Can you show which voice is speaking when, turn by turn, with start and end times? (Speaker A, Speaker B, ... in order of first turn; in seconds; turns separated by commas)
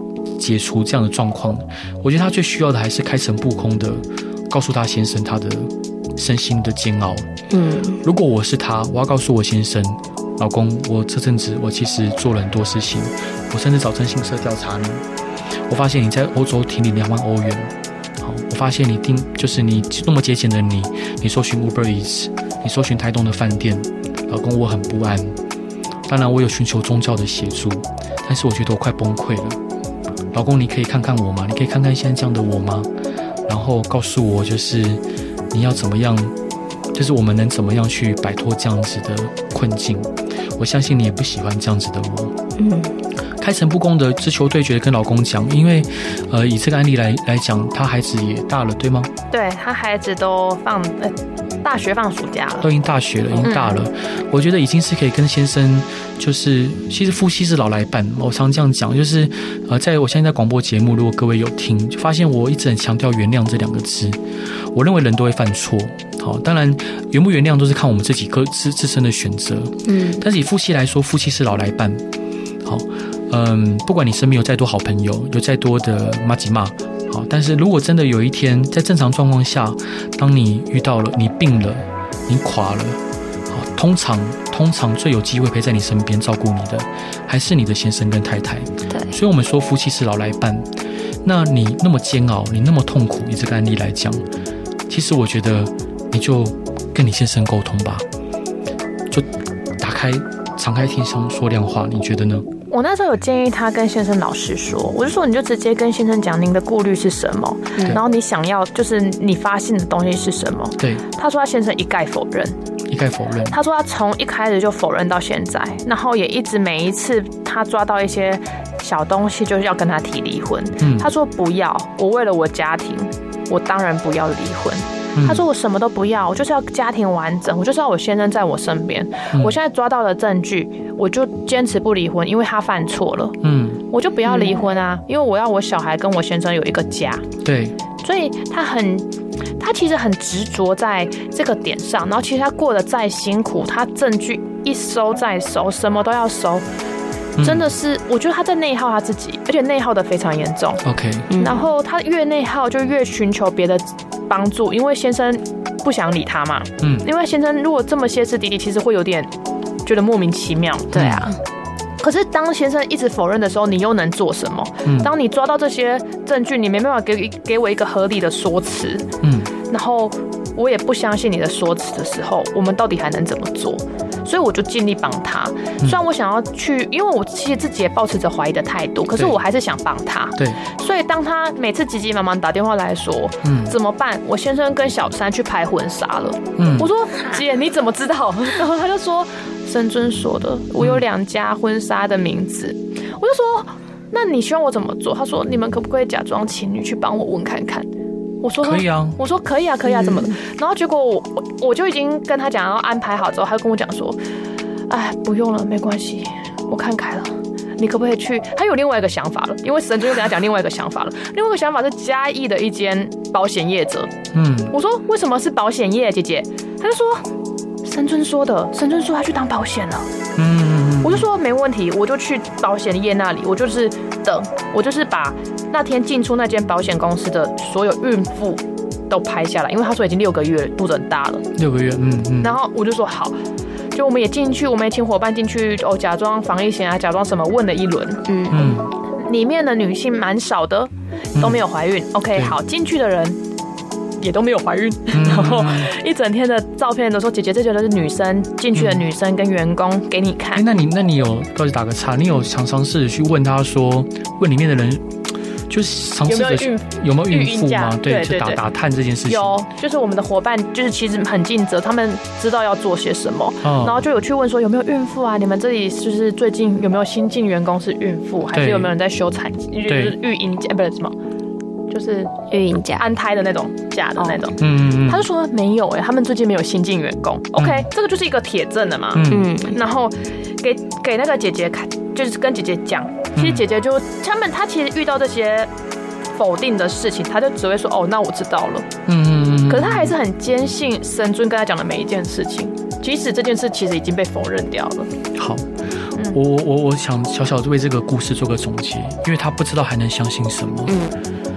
Speaker A: 0.4-7.3, Speaker B: 7.5-8.0, Speaker A: 8.0-15.0, Speaker A: 15.7-25.3, Speaker A: 26.1-29.6, Speaker A: 30.3-32.9, Speaker A: 33.5-36.3, Speaker A: 36.9-42.4, Speaker B: 42.6-42.9, Speaker A: 43.4-49.1, Speaker C: 49.3-52.7, Speaker A: 52.6-64.2, Speaker C: 53.4-53.8, Speaker A: 64.7-72.0, Speaker B: 69.9-70.2, Speaker A: 72.6-90.7, Speaker A: 91.2-94.2, Speaker A: 94.9-98.0, Speaker A: 99.8-102.5, Speaker C: 102.7-112.6, Speaker A: 112.9-113.6, Speaker C: 113.5-133.4, Speaker A: 120.8-121.1, Speaker A: 125.2-125.4, Speaker A: 133.4-133.8, Speaker C: 133.9-137.3, Speaker B: 134.3-134.6, Speaker A: 137.4-137.8, Speaker C: 138.0-139.1, Speaker C: 139.6-146.7, Speaker A: 147.4-147.7, Speaker C: 147.4-150.8, Speaker A: 150.8-151.3, Speaker B: 151.3-151.6, Speaker C: 151.4-159.3, Speaker A: 156.8-157.1, Speaker C: 159.9-161.1, Speaker B: 160.9-161.4, Speaker A: 160.9-161.3, Speaker C: 162.0-169.1, Speaker A: 164.8-165.1, Speaker A: 169.2-169.5, Speaker C: 169.7-197.9, Speaker A: 183.4-183.8, Speaker A: 186.6-186.9, Speaker C: 198.4-204.2, Speaker A: 198.6-199.2, Speaker B: 199.9-200.3, Speaker C: 204.9-214.1, Speaker A: 214.3-214.7, Speaker C: 214.7-217.3, Speaker C: 217.8-220.1, Speaker A: 220.4-221.3, Speaker C: 221.0-231.5, Speaker A: 231.6-232.6, Speaker C: 232.4-233.3, Speaker C: 233.9-238.3, Speaker B: 238.3-238.7, Speaker A: 238.5-238.9, Speaker C: 239.2-243.4, Speaker A: 241.3-241.6, Speaker C: 244.2-250.7, Speaker A: 245.1-245.9, Speaker A: 248.8-249.0, Speaker A: 250.6-255.1, Speaker A: 255.7-259.6, Speaker C: 256.2-258.6, Speaker C: 259.3-271.1, Speaker A: 263.6-264.0, Speaker A: 268.5-268.9, Speaker A: 269.9-270.2, Speaker C: 271.9-272.4, Speaker B: 272.5-273.0, Speaker C: 272.9-285.7, Speaker A: 274.6-275.2, Speaker A: 277.6-277.9, Speaker A: 279.1-279.5, Speaker B: 279.3-279.8, Speaker A: 283.4-283.7, Speaker C: 286.4-288.9, Speaker A: 289.1-290.1, Speaker C: 289.7-295.1, Speaker A: 295.4-295.7, Speaker A: 296.3-301.0, Speaker B: 300.9-301.1